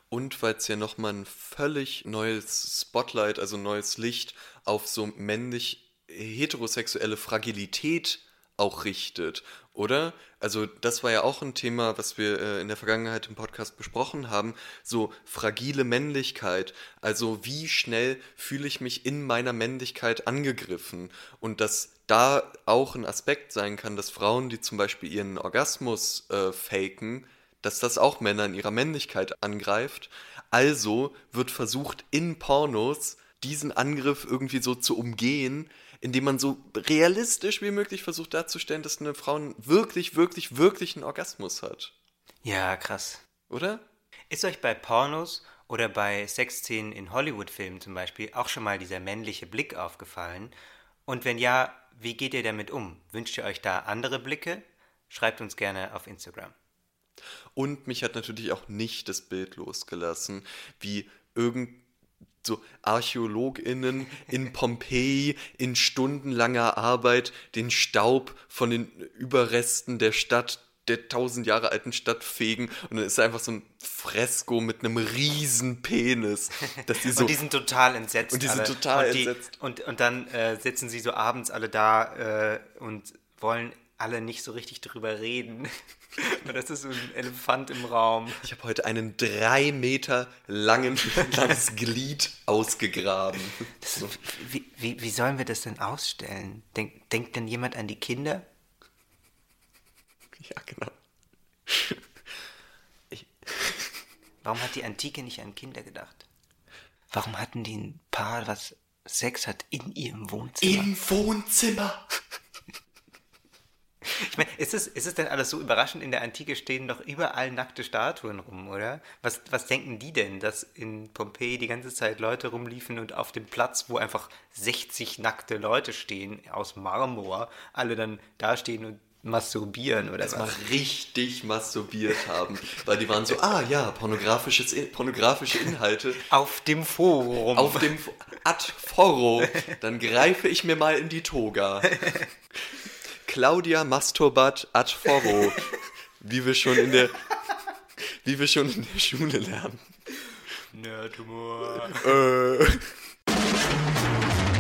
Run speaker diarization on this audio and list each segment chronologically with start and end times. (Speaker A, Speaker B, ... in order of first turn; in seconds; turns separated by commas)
Speaker A: 0.1-41.9, Speaker B: 42.4-43.2, Speaker A: 43.5-43.8, Speaker B: 44.3-50.5, Speaker B: 51.1-56.5, Speaker A: 57.5-61.8, Speaker A: 62.4-77.4, Speaker B: 77.1-88.4, Speaker A: 78.3-79.5, Speaker A: 88.4-94.2, Speaker B: 93.8-98.5, Speaker A: 100.4-101.0, Speaker A: 101.7-102.0, Speaker A: 103.1-103.9, Speaker B: 104.4-106.2, Speaker B: 107.1-110.9, Speaker A: 110.6-112.0, Speaker B: 114.1-130.6, Speaker A: 130.2-136.3, Speaker B: 136.3-137.9, Speaker A: 137.6-142.0, Speaker A: 143.3-145.7, Speaker A: 146.2-147.3, Speaker A: 148.2-149.9, Speaker B: 150.7-152.1, Speaker A: 151.9-153.0